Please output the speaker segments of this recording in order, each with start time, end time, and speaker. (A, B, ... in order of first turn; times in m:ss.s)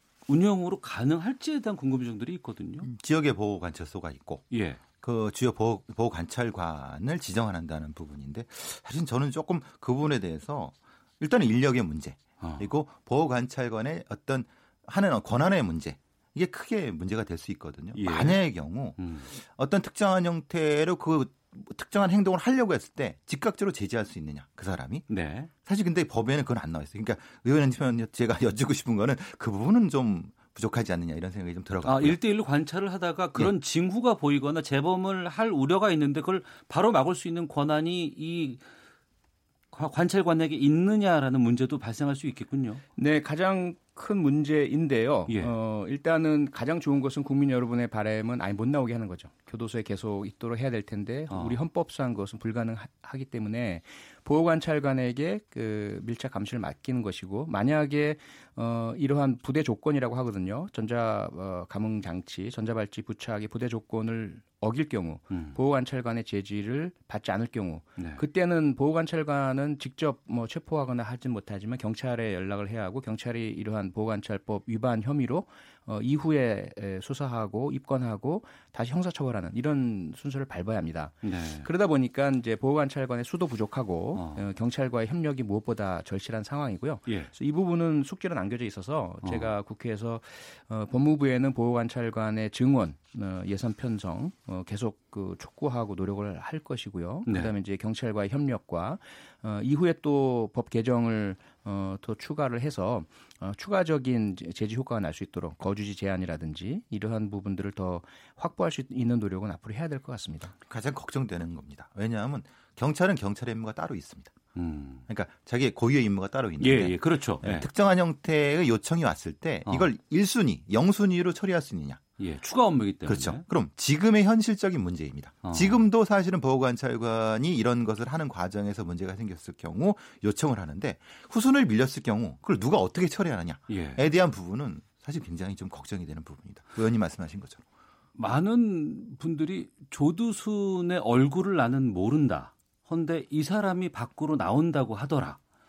0:00.3-0:02.9 A
0:02.8-0:04.4 B
0:04.5-0:04.8 A
0:05.0-0:25.1 B
0:12.4-0:12.7 A
0:17.9-0:18.4 A
0:19.0-0:19.3 A
0:25.1-0:25.5 A
0:25.6-0:32.2 B
0:31.8-0:38.6 A
0:39.7-0:42.8 A
0:43.0-1:50.5 C
0:45.3-0:45.5 A
0:51.3-0:51.6 A
1:05.3-1:05.6 A
1:08.0-1:08.2 A
1:21.2-1:21.7 A
1:24.1-1:24.4 A
1:27.1-1:27.3 A
1:29.2-1:29.5 A
1:37.3-1:37.5 A
1:50.7-1:54.4 B
1:54.6-1:55.0 A
1:55.1-2:02.1 B
1:56.6-1:57.7 A
2:02.2-2:03.4 A
2:03.0-2:17.6 B
2:05.4-2:05.8 A
2:13.7-2:14.0 A
2:18.2-2:25.4 A